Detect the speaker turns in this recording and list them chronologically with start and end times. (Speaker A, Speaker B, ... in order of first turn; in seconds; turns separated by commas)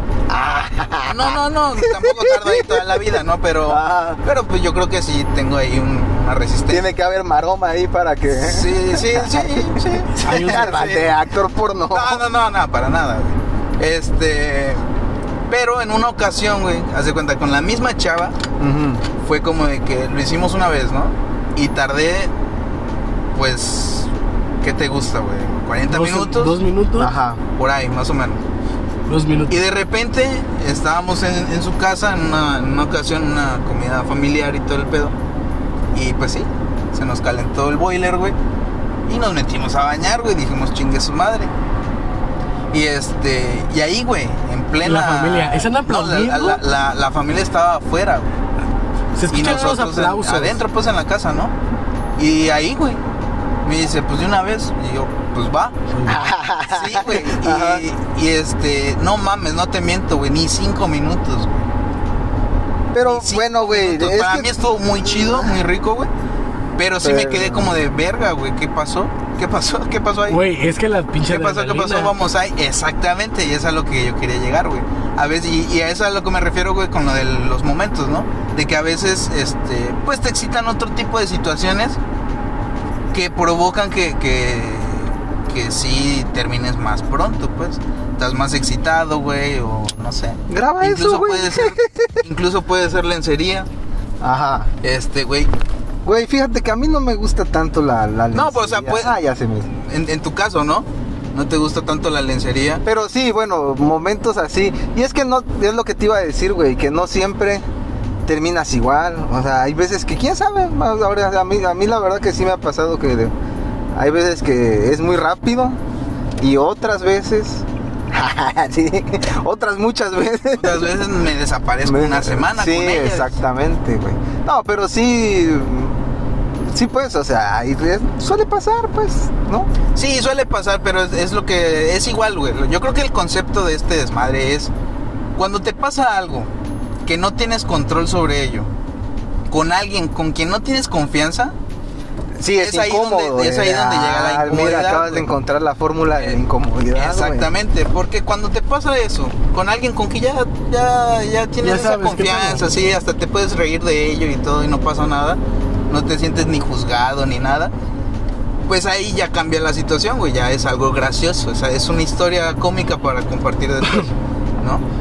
Speaker A: 0.3-4.2, Speaker B: 1.1-6.9, Speaker A: 6.7-12.2, Speaker B: 8.3-11.2, Speaker C: 10.2-11.1, Speaker B: 11.9-14.8, Speaker B: 15.5-18.4, Speaker A: 18.6-19.1, Speaker B: 19.2-22.3, Speaker B: 23.3-24.1, Speaker B: 24.6-26.6, Speaker C: 25.9-27.1, Speaker A: 27.0-27.4, Speaker B: 27.6-28.4, Speaker C: 29.1-29.6, Speaker B: 29.5-35.1, Speaker B: 35.9-38.4, Speaker B: 39.1-41.5, Speaker B: 42.7-48.3, Speaker C: 44.8-46.6, Speaker C: 49.1-50.6, Speaker B: 49.3-51.5, Speaker B: 52.2-53.0, Speaker B: 53.6-55.7, Speaker C: 55.9-56.2, Speaker A: 56.0-57.8, Speaker B: 56.7-61.7, Speaker A: 62.9-65.5, Speaker B: 63.0-66.1, Speaker B: 66.8-70.4, Speaker A: 67.0-67.7, Speaker C: 70.3-72.1, Speaker B: 71.3-82.0, Speaker B: 83.1-93.7, Speaker A: 90.5-92.2, Speaker A: 94.2-94.7, Speaker B: 94.8-95.5, Speaker A: 96.0-99.7, Speaker B: 98.3-99.1, Speaker B: 99.8-102.8, Speaker A: 102.8-107.6, Speaker A: 108.2-113.3, Speaker A: 113.9-115.8, Speaker A: 116.4-120.9, Speaker B: 120.5-123.4, Speaker A: 121.8-126.0, Speaker A: 126.6-129.7, Speaker B: 129.9-134.7, Speaker B: 135.3-136.5, Speaker B: 137.0-138.7, Speaker B: 139.5-141.5, Speaker A: 142.4-147.5, Speaker B: 142.6-145.3, Speaker B: 146.9-157.7, Speaker C: 151.6-152.7, Speaker B: 158.7-164.8